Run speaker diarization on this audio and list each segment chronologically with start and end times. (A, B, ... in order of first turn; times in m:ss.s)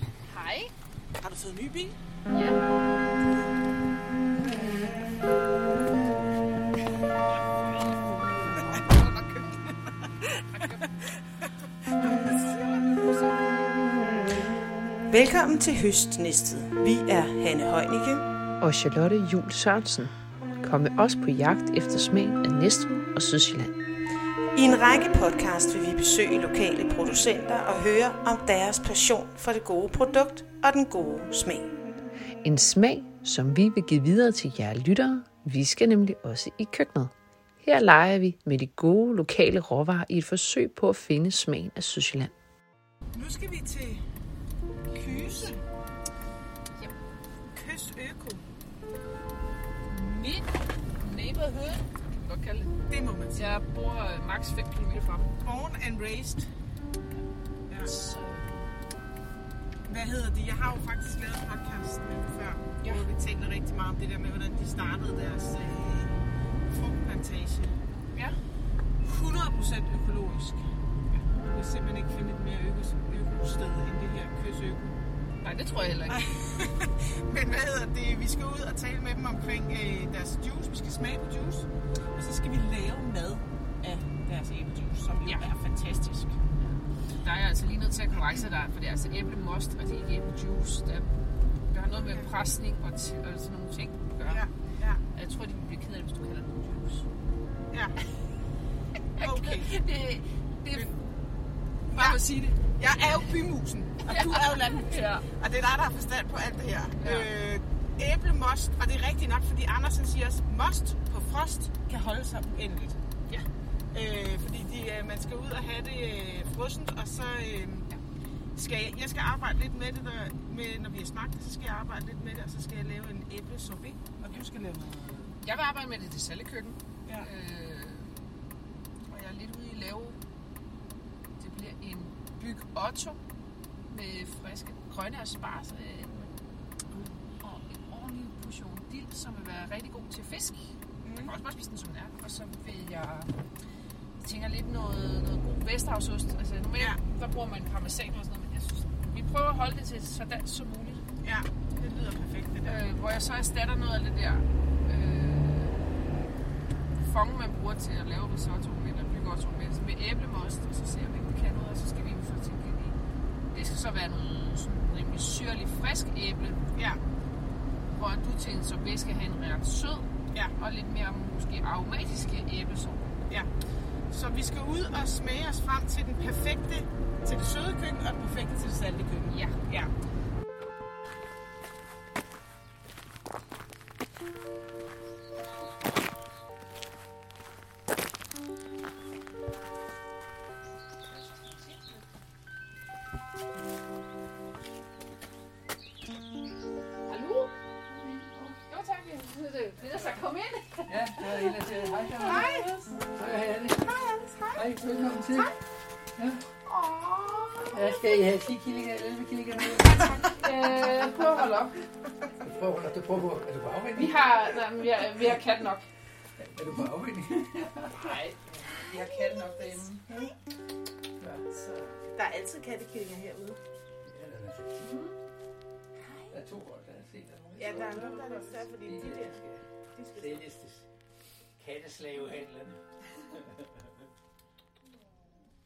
0:00.3-0:00.7 A
0:01.2-0:02.0 B
0:02.3-0:02.6 A
0:07.6-0:10.7 B
0:10.6-0:10.8 A
0:11.9-0:14.5 B
0:12.4-0:13.4 A
0:15.1-0:18.2 C
0:18.6-0:20.1 D
0:20.6-0:23.7 D
0:24.5-0:31.7 C
0:32.4-0:42.3 D
0:43.1-0:44.0 B
0:44.9-0:45.6 B
0:44.9-0:45.6 A
0:47.5-0:48.4 B
0:49.9-0:52.8 A
0:52.9-0:53.4 B
0:53.3-0:55.3 A
0:55.4-0:56.5 B
0:57.8-0:58.7 A
0:59.9-1:07.8 B
1:09.0-1:10.6 B
1:11.1-1:14.9 B
1:15.4-1:16.2 A
1:16.1-1:26.4 B
1:27.1-1:34.4 A
1:34.3-1:35.0 B
1:35.1-1:37.1 A
1:37.7-1:38.0 B
1:39.2-1:40.9 A
1:39.2-1:39.7 B
1:41.9-1:42.6 A
1:41.9-1:53.0 B
1:44.1-1:45.2 A
1:47.0-1:47.2 A
1:53.9-1:57.9 B
1:58.6-2:05.3 B
2:05.4-2:08.2 A
2:09.1-2:10.2 A
2:11.4-2:13.2 A
2:13.9-2:16.3 A
2:16.9-2:20.6 A
2:21.0-2:21.3 B
2:21.2-2:23.3 A
2:24.2-2:31.0 A
2:31.2-2:32.8 B
2:32.6-2:35.9 A
2:37.0-2:43.0 A
2:43.5-2:46.6 A
2:46.7-2:47.0 B
2:48.0-2:53.1 A
2:54.1-2:59.9 B
2:59.3-2:59.6 A
3:11.3-3:11.9 A
3:17.1-3:17.5 A
3:18.5-3:23.0 A
3:20.9-3:22.5 E
3:22.3-3:22.6 B
3:23.1-3:23.9 E
3:23.8-3:24.6 B
3:24.5-3:25.5 E
3:26.2-3:26.4 E
3:26.7-3:27.7 A
3:27.7-3:30.3 E
3:30.3-3:31.8 A
3:32.4-3:34.3 E
3:34.0-3:35.8 A
3:36.4-3:38.1 E
3:37.9-3:40.1 A
3:41.2-3:41.8 A
3:42.1-3:43.6 B
3:44.1-3:44.9 E
3:44.8-3:45.2 A
3:46.3-3:49.6 E
3:47.6-3:49.4 B
3:49.9-3:50.4 B
3:50.1-3:50.9 E
3:51.6-3:53.9 E